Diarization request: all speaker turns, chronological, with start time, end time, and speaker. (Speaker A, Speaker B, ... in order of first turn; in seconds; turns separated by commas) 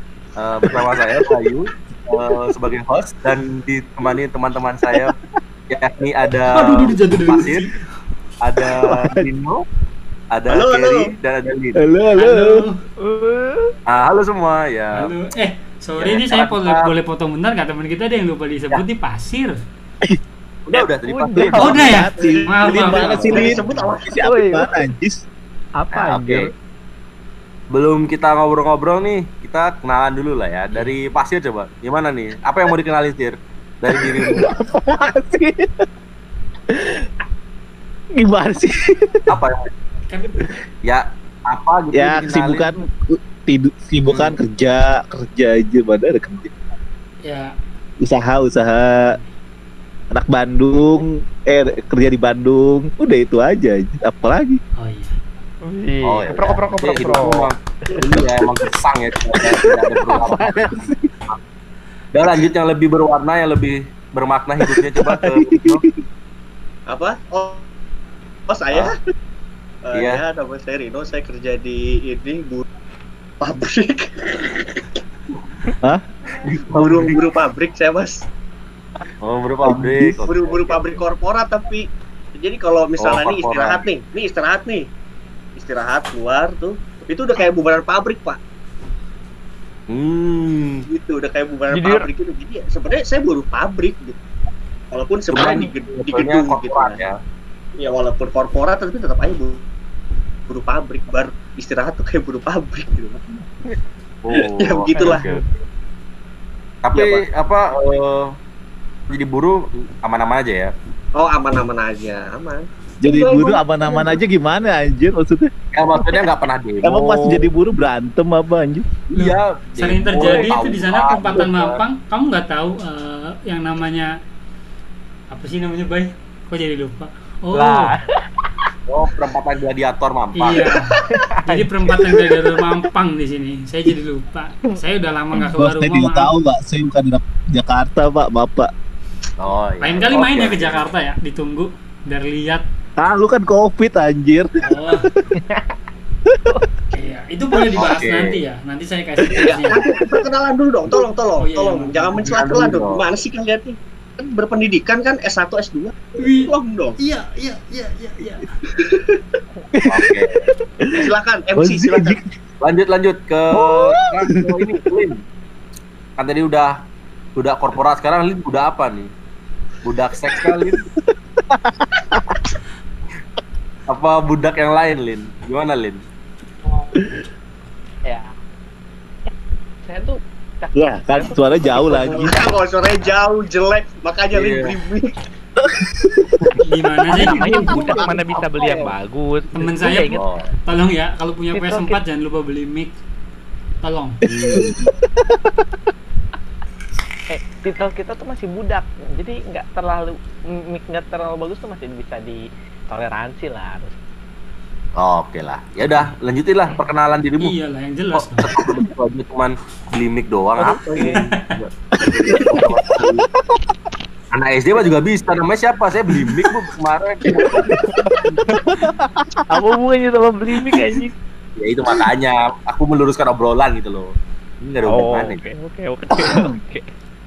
Speaker A: 0.4-5.2, Speaker A: 5.7-7.7, Speaker B: 6.5-7.8, Speaker A: 8.4-9.6, Speaker C: 8.7-9.2, Speaker A: 10.3-11.8, Speaker D: 10.5-11.1, Speaker C: 11.8-12.6, Speaker B: 12.1-12.8, Speaker E: 13.0-13.7, Speaker A: 13.9-15.1, Speaker B: 14.9-19.6, Speaker A: 16.0-16.9, Speaker A: 20.6-22.0, Speaker C: 21.1-25.2, Speaker B: 21.6-23.9, Speaker D: 22.1-24.1, Speaker E: 24.1-24.8, Speaker E: 25.8-26.5, Speaker A: 25.9-26.5, Speaker A: 27.7-34.5, Speaker C: 33.9-35.8, Speaker C: 36.7-37.1, Speaker C: 38.2-39.2, Speaker A: 39.3-39.7, Speaker B: 40.1-40.4, Speaker A: 40.8-42.7, Speaker C: 41.9-46.5, Speaker A: 44.0-44.4, Speaker B: 47.2-47.5, Speaker C: 48.0-49.1, Speaker C: 50.1-54.6, Speaker B: 54.8-55.1, Speaker E: 55.6-58.2, Speaker A: 56.0-61.4, Speaker C: 59.5-61.1, Speaker A: 62.1-65.8, Speaker C: 64.6-65.9, Speaker D: 66.9-67.6, Speaker D: 68.5-69.0, Speaker D: 69.8-72.7, Speaker A: 69.9-70.2, Speaker D: 73.4-75.0, Speaker A: 76.4-77.2, Speaker D: 76.8-78.2, Speaker A: 79.2-81.0, Speaker C: 79.6-80.2, Speaker D: 80.3-81.8, Speaker D: 82.3-84.9, Speaker A: 83.0-83.8, Speaker D: 85.5-88.4, Speaker A: 89.9-90.8, Speaker D: 90.9-94.2, Speaker E: 91.7-92.1, Speaker D: 94.9-97.0, Speaker A: 95.3-97.2, Speaker D: 97.8-99.6, Speaker D: 100.5-103.2, Speaker A: 104.2-105.4, Speaker D: 104.3-105.2, Speaker E: 104.9-105.5, Speaker A: 106.8-108.3, Speaker A: 109.1-110.7, Speaker D: 111.1-114.2, Speaker C: 113.0-115.5, Speaker A: 115.7-117.5, Speaker C: 116.8-118.8, Speaker A: 119.1-121.8, Speaker B: 119.1-124.1, Speaker B: 125.3-128.0, Speaker A: 127.5-128.0, Speaker A: 128.9-130.8, Speaker B: 130.4-130.9, Speaker E: 131.0-132.2, Speaker B: 131.4-136.3, Speaker C: 135.5-138.7, Speaker A: 139.4-140.8, Speaker B: 139.8-142.6, Speaker C: 143.0-144.5, Speaker B: 144.6-145.1, Speaker C: 146.3-146.6, Speaker B: 146.9-149.8, Speaker A: 147.8-148.3, Speaker D: 149.7-157.0, Speaker B: 151.4-152.2, Speaker A: 152.2-153.0, Speaker B: 156.2-158.5, Speaker D: 158.7-159.2, Speaker C: 159.7-160.9, Speaker A: 159.9-160.5, Speaker D: 160.9-162.2, Speaker C: 161.6-162.3, Speaker A: 162.6-165.2, Speaker C: 163.5-164.6, Speaker A: 166.2-166.7, Speaker A: 167.3-169.1, Speaker A: 169.8-170.8, Speaker C: 171.5-172.4, Speaker A: 173.9-176.0, Speaker E: 178.1-178.3, Speaker E: 179.8-182.5, Speaker C: 180.8-182.5, Speaker D: 182.0-185.2, Speaker A: 184.3-184.7, Speaker C: 185.6-186.5, Speaker B: 186.6-187.7, Speaker E: 187.1-190.2, Speaker A: 187.2-187.6, Speaker C: 187.3-188.1, Speaker D: 187.7-188.9, Speaker B: 189.5-192.9, Speaker A: 190.1-190.5, Speaker E: 191.5-192.0, Speaker B: 193.8-194.2, Speaker C: 194.2-195.6, Speaker A: 194.3-194.8, Speaker E: 197.3-203.9, Speaker A: 205.0-207.5, Speaker B: 207.4-208.5, Speaker A: 208.1-213.2, Speaker E: 210.6-211.2, Speaker B: 211.1-211.5, Speaker C: 212.0-212.8, Speaker A: 214.3-217.8, Speaker C: 217.8-219.7, Speaker E: 218.5-218.9, Speaker E: 219.5-221.1, Speaker C: 220.5-221.0, Speaker A: 221.6-225.4, Speaker E: 224.8-226.9, Speaker C: 226.1-226.4